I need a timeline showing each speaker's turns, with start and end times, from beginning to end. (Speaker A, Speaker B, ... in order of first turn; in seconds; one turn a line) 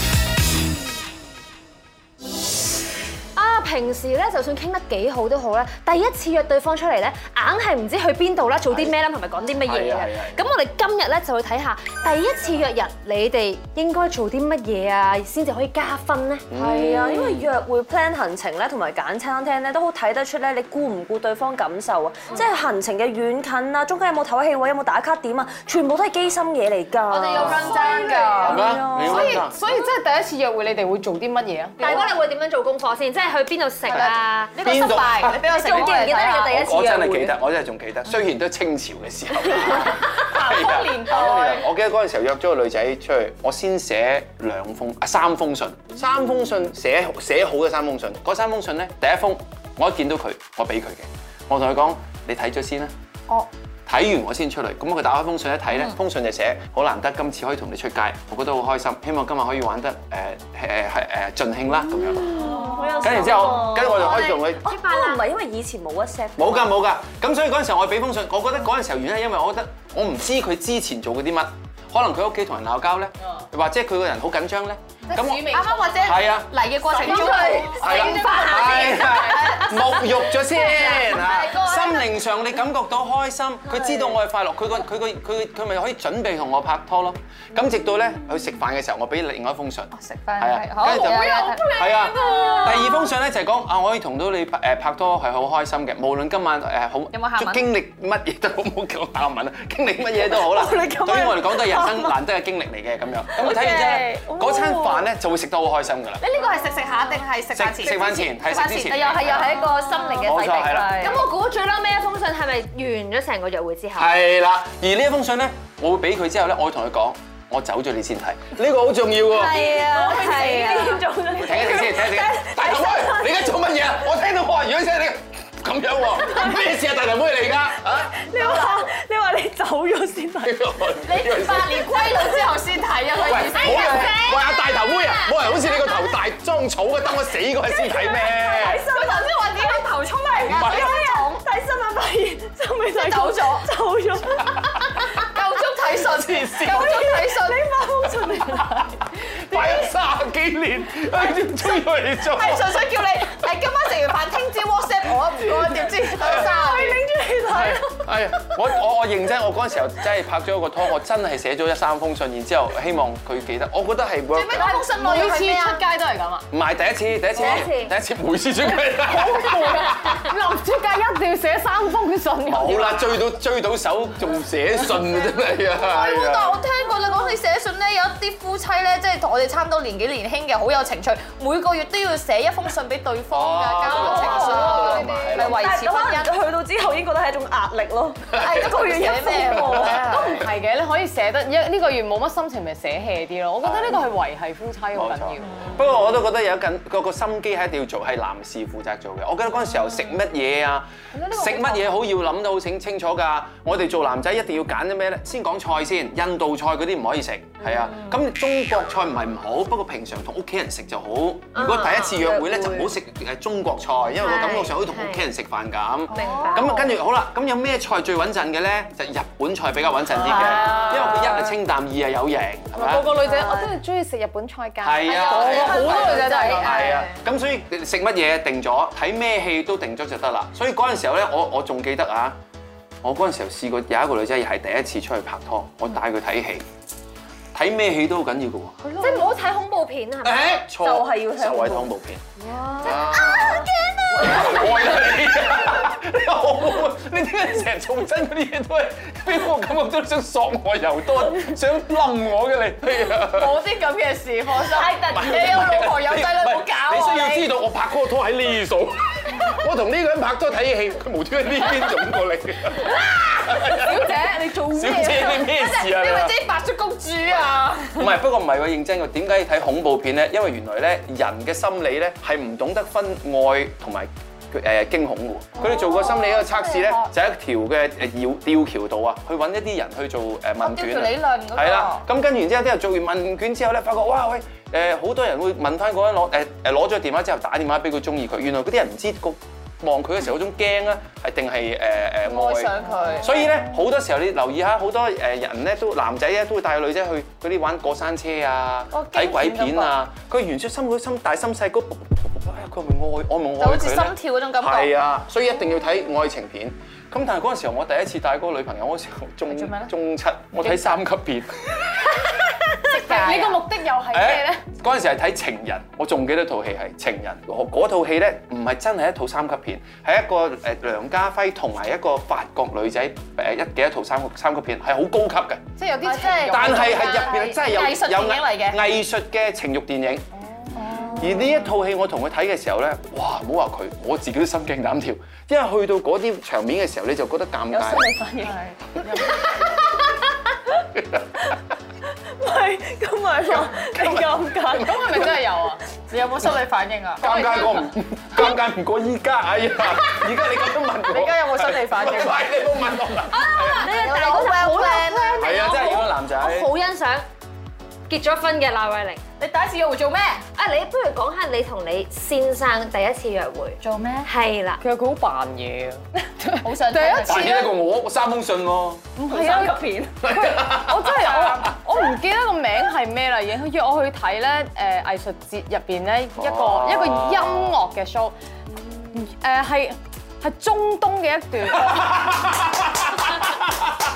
Speaker A: 3.4-16.5
Speaker B: 8.7-9.0
Speaker B: 9.6-10.4
Speaker B: 16.5-17.4
Speaker C: 16.6-29.4
Speaker D: 27.1-28.7
Speaker A: 27.2-28.3
Speaker B: 27.3-27.8
Speaker E: 27.6-32.1
Speaker B: 28.4-29.6
Speaker A: 31.8-34.6
Speaker D: 31.8-32.2
Speaker D: 33.9-36.6
Speaker B: 34.6-35.8
Speaker C: 35.4-37.4
Speaker B: 36.4-52.9
Speaker D: 40.1-41.7
Speaker B: 53.9-64.8
Speaker C: 62.2-66.7
Speaker D: 62.4-63.5
Speaker A: 63.8-65.2
Speaker B: 66.4-106.2
Speaker E: 75.1-76.2
Speaker D: 75.1-82.1
Speaker E: 76.9-79.3
Speaker C: 77.0-77.6
Speaker D: 90.0-93.1
Speaker E: 90.9-92.6
Speaker D: 97.1-97.7
Speaker C: 100.2-102.2
Speaker C: 103.3-105.1
Speaker D: 106.2-111.2
Speaker B: 107.5-109.6
Speaker A: 109.4-110.3
Speaker B: 110.2-111.2
Speaker C: 110.5-111.1
Speaker A: 111.0-114.1
Speaker B: 114.0-119.7
Speaker C: 119.3-123.9
Speaker A: 119.4-121.0
Speaker D: 119.8-120.3
Speaker B: 121.4-128.5
Speaker C: 127.9-130.6
Speaker B: 130.4-131.9
Speaker D: 131.0-134.6
Speaker C: 131.8-132.6
Speaker B: 133.2-138.9
Speaker D: 135.2-135.6
Speaker C: 138.2-145.3
Speaker D: 138.7-141.4
Speaker B: 140.5-141.0
Speaker D: 142.9-143.7
Speaker D: 145.0-147.7
Speaker B: 146.2-146.9
Speaker C: 146.6-149.0
Speaker B: 148.6-152.8
Speaker D: 152.3-157.1
Speaker C: 156.1-158.6
Speaker B: 157.5-164.8
Speaker D: 164.3-165.9
Speaker E: 164.5-166.4
Speaker B: 166.5-170.3
Speaker A: 167.3-167.9
Speaker E: 169.1-173.2
Speaker B: 172.4-176.6
Speaker D: 175.8-186.3
Speaker B: 183.3-185.7
Speaker E: 183.9-185.4
Speaker C: 185.3-190.2
Speaker D: 188.3-190.4
Speaker E: 190.0-195.7
Speaker B: 193.6-194.0
Speaker B: 194.9-223.1
Speaker A: 207.7-208.1
Speaker A: 211.6-212.3
Speaker C: 212.2-212.9
Speaker A: 214.2-215.2
Speaker A: 216.1-216.7
Speaker E: 216.2-216.7
Speaker D: 216.2-216.6
Speaker D: 220.3-221.3
Speaker E: 220.4-221.0
Speaker E: 222.8-227.1
Speaker D: 223.2-223.6
Speaker B: 224.8-232.4
Speaker D: 225.1-227.1
Speaker B: 233.0-236.7
Speaker B: 237.5-239.0
Speaker A: 238.9-240.6
Speaker B: 240.2-242.2
Speaker C: 240.7-241.9
Speaker A: 242.4-244.7
Speaker B: 242.8-253.6
Speaker E: 253.4-255.8
Speaker D: 254.5-257.5
Speaker B: 255.1-266.4
Speaker E: 263.7-265.5
Speaker D: 265.3-268.1
Speaker B: 267.9-312.7
Speaker D: 275.6-277.1
Speaker D: 280.6-282.1
Speaker D: 292.2-293.5
Speaker D: 298.9-299.9
Speaker D: 303.6-304.9
Speaker D: 309.5-309.9
Speaker E: 312.9-314.6
Speaker D: 312.9-313.6
Speaker B: 314.1-325.7
Speaker D: 325.8-328.8
Speaker E: 326.0-327.6
Speaker B: 326.4-330.3
Speaker E: 330.6-331.5
Speaker D: 330.9-331.1
Speaker B: 331.1-338.1
Speaker C: 337.7-338.6
Speaker E: 339.0-339.3
Speaker B: 340.9-341.4
Speaker C: 342.4-345.4
Speaker B: 343.5-345.2
Speaker E: 344.8-345.8
Speaker D: 346.1-347.7
Speaker B: 347.2-353.9
Speaker E: 347.2-347.8
Speaker E: 351.1-352.4
Speaker A: 353.3-357.2
Speaker D: 353.7-355.7
Speaker B: 355.4-356.7
Speaker A: 358.1-359.2
Speaker D: 359.4-360.4
Speaker A: 360.6-364.8
Speaker D: 363.8-364.3
Speaker E: 364.8-367.7
Speaker D: 366.6-367.7
Speaker B: 367.2-369.1
Speaker E: 369.2-378.3
Speaker C: 369.2-370.3
Speaker B: 370.2-371.7
Speaker B: 376.4-377.8
Speaker E: 379.1-382.4
Speaker B: 381.9-383.9